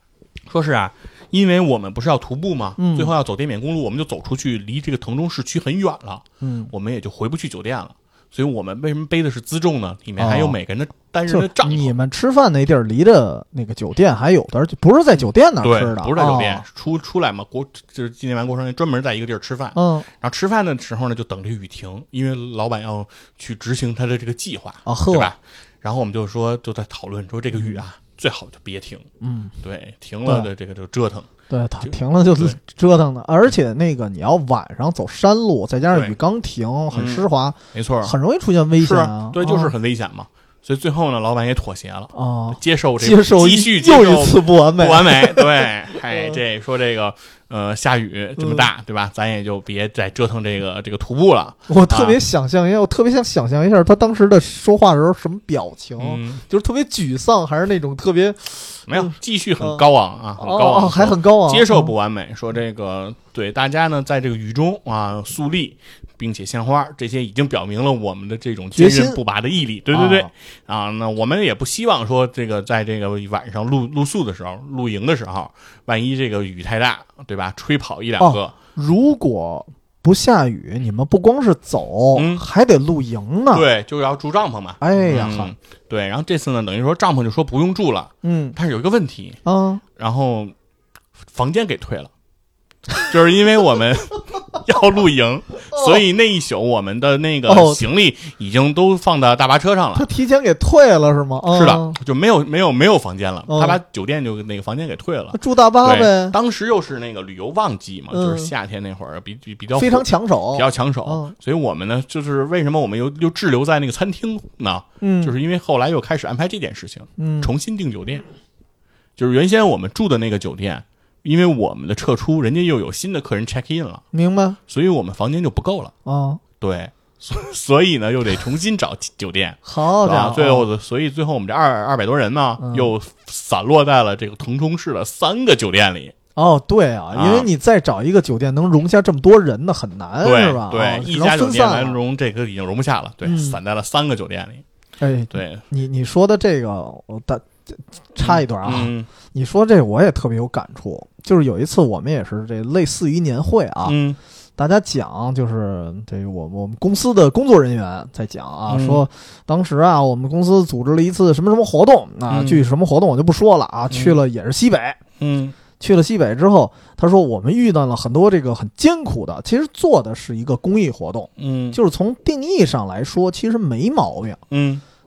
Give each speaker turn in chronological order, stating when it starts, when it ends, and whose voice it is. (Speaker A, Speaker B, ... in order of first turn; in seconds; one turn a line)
Speaker A: 0.5-11.9
Speaker B: 2.8-3.1
Speaker B: 6.4-6.7
Speaker B: 10.2-10.6
Speaker B: 11.3-16.6
Speaker A: 15.6-29.1
Speaker B: 19.7-20.1
Speaker B: 24.8-25.3
Speaker B: 27.5-27.8
Speaker B: 29.2-29.5
Speaker A: 29.6-31.3
Speaker B: 31.5-39.7
Speaker A: 31.9-32.6
Speaker A: 36.9-38.1
Speaker A: 38.8-52.2
Speaker B: 42.1-46.4
Speaker B: 48.4-48.7
Speaker B: 51.7-59.8
Speaker A: 56.0-56.4
Speaker A: 58.9-78.5
Speaker B: 60.4-61.9
Speaker B: 68.7-69.2
Speaker B: 69.9-70.3
Speaker B: 78.2-83.7
Speaker A: 82.1-82.4
Speaker A: 83.5-89.4
Speaker B: 84.8-85.5
Speaker B: 88.2-88.5
Speaker B: 89.4-89.8
Speaker A: 90.0-90.5
Speaker A: 91.3-92.1
Speaker A: 93.1-100.1
Speaker B: 95.7-96.0
Speaker B: 97.5-97.8
Speaker B: 99.9-102.0
Speaker A: 101.5-118.2
Speaker B: 103.5-103.8
Speaker B: 105.3-106.3
Speaker B: 108.1-108.5
Speaker B: 109.7-111.3
Speaker B: 115.0-115.3
Speaker B: 117.2-117.5
Speaker A: 119.2-124.0
Speaker B: 124.1-124.6
Speaker A: 124.7-125.9
Speaker B: 126.0-126.4
Speaker A: 126.6-136.1
Speaker B: 129.6-130.7
Speaker B: 132.6-132.9
Speaker B: 136.3-142.0
Speaker A: 137.1-137.5
Speaker A: 140.2-144.6
Speaker B: 143.2-143.6
Speaker B: 145.0-153.9
Speaker A: 145.3-145.6
Speaker A: 148.2-149.1
Speaker A: 153.8-154.2
Speaker B: 154.6-165.0
Speaker A: 158.7-159.0
Speaker A: 162.3-162.7
Speaker A: 163.9-164.2
Speaker A: 165.2-165.5
Speaker B: 165.8-174.4
Speaker A: 171.4-171.8
Speaker A: 174.5-174.8